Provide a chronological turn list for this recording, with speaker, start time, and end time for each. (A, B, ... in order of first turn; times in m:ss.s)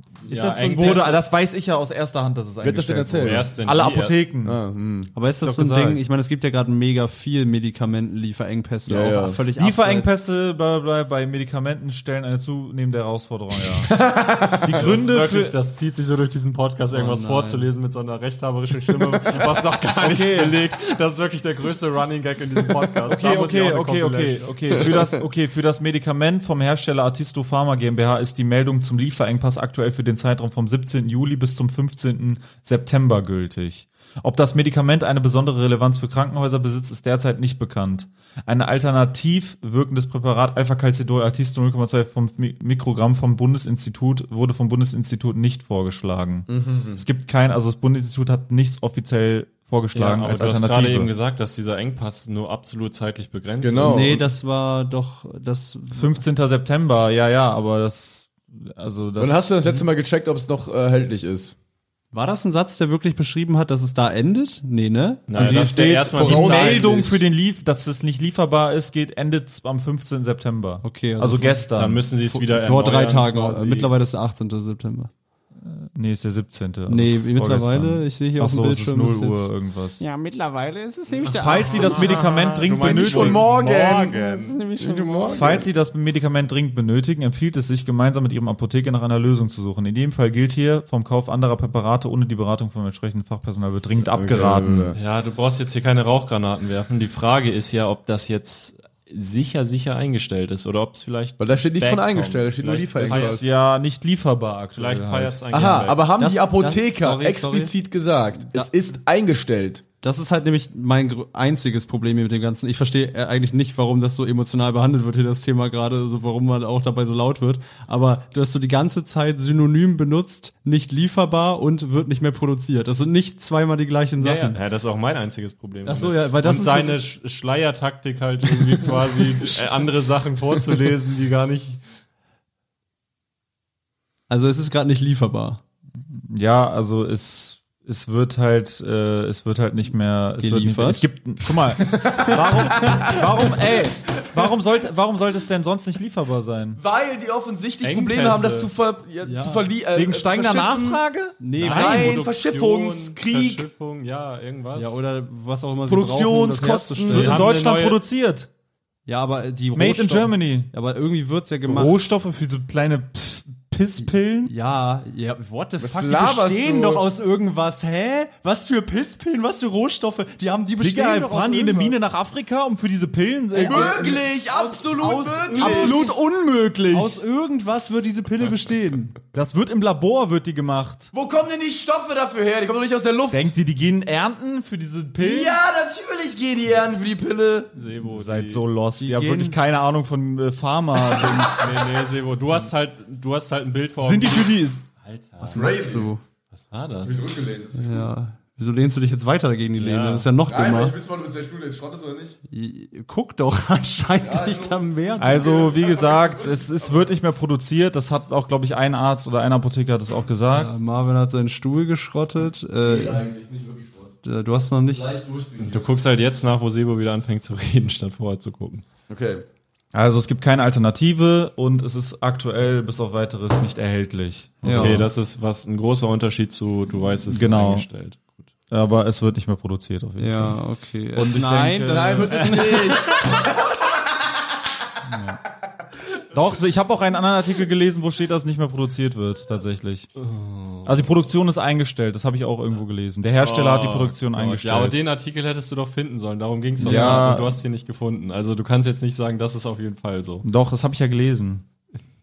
0:00.2-0:01.2 A
0:00.3-0:01.1 B
0:00.5-0:04.6 C
0:02.6-0:03.5 D
0:03.2-0:04.2 A
0:04.4-0:05.1 D
0:05.1-0:10.1 B
0:05.4-0:06.0 C
0:08.9-0:09.4 D
0:09.6-0:14.0 C
0:13.8-0:14.8 D
0:14.6-0:15.6 C
0:14.7-0:24.9 A
0:16.9-0:17.7 B
0:20.0-0:20.6 C
0:23.0-0:51.1 C
0:46.5-0:47.0 D
0:49.9-0:54.1 A
0:53.6-0:54.3 D
0:53.8-0:56.2 B
0:55.9-0:59.9 C
0:59.2-1:01.5 D
1:02.1-1:05.3 B
1:05.3-1:07.0 A
1:05.3-1:12.0 C
1:05.4-1:07.2 D
1:10.8-1:11.6 B
1:11.7-1:13.9 A
1:12.2-1:15.1 B
1:15.6-1:20.0 C
1:16.9-1:19.5 B
1:20.0-1:22.4 E
1:21.2-1:23.5 C
1:21.2-1:24.6 A
1:22.7-1:24.2 D
1:23.6-1:25.6 E
1:24.8-1:25.7 D
1:25.3-1:34.9 C
1:34.0-1:35.0 D
1:34.9-1:43.5 A
1:41.4-1:43.4 D
1:43.0-1:45.4 C
1:44.8-1:46.0 A
1:45.5-1:49.8 D
1:46.2-1:47.7 B
1:50.0-2:04.6 B
2:04.2-2:11.8 A
2:05.8-2:07.0 B
2:08.5-2:09.8 B
2:14.3-2:15.6 B
2:16.1-2:26.8 C
2:20.4-2:21.0 B
2:22.0-2:23.2 D
2:26.8-2:31.0 D
2:27.8-2:28.7 A
2:29.2-2:29.7 B
2:29.9-2:31.4 C
2:31.4-2:32.2 B
2:31.6-2:35.0 A
2:31.6-2:33.6 D
2:34.7-2:37.5 B
2:35.9-2:37.4 D
2:37.0-2:38.5 C
2:37.1-2:38.0 A
2:39.0-2:42.0 B
2:39.7-2:40.7 C
2:41.6-2:44.5 C
2:44.4-2:52.0 B
2:45.8-2:47.0 D
2:50.8-2:54.2 C
2:53.5-2:56.2 B
2:53.6-2:56.1 D
2:55.6-2:57.2 C
2:56.9-2:59.2 B
2:59.3-3:01.1 C
3:01.1-3:03.5 D
3:03.3-3:05.6 C
3:05.2-3:07.7 D
3:07.7-3:08.6 A
3:08.1-3:11.8 C
3:09.0-3:09.6 B
3:11.4-3:15.8 A
3:14.0-3:14.8 C
3:15.4-3:16.1 D
3:15.5-3:16.2 B
3:16.5-3:17.3 A
3:17.0-3:18.1 D
3:17.7-3:21.0 B
3:19.8-3:20.3 A
3:20.5-3:22.4 D
3:22.5-3:25.7 B
3:24.2-3:27.0 D
3:25.2-3:30.7 C
3:30.5-3:33.2 B
3:32.8-3:34.1 D
3:34.2-3:35.2 B
3:34.9-3:35.8 D
3:35.6-3:38.8 A
3:39.1-3:39.4 D
3:39.9-3:45.1 C
3:44.6-3:45.1 B
3:44.6-3:48.5 A
3:47.3-3:47.8 C
3:48.7-3:50.6 C
3:50.2-3:53.2 B
3:51.1-3:52.8 C
3:51.9-3:53.6 D
3:55.0-3:55.4 C
3:56.3-4:00.1 C
4:00.2-4:00.9 A
4:00.8-4:05.0 C
4:03.4-4:10.4 A
4:06.8-4:07.6 C
4:06.8-4:07.3 B
4:10.4-4:11.6 C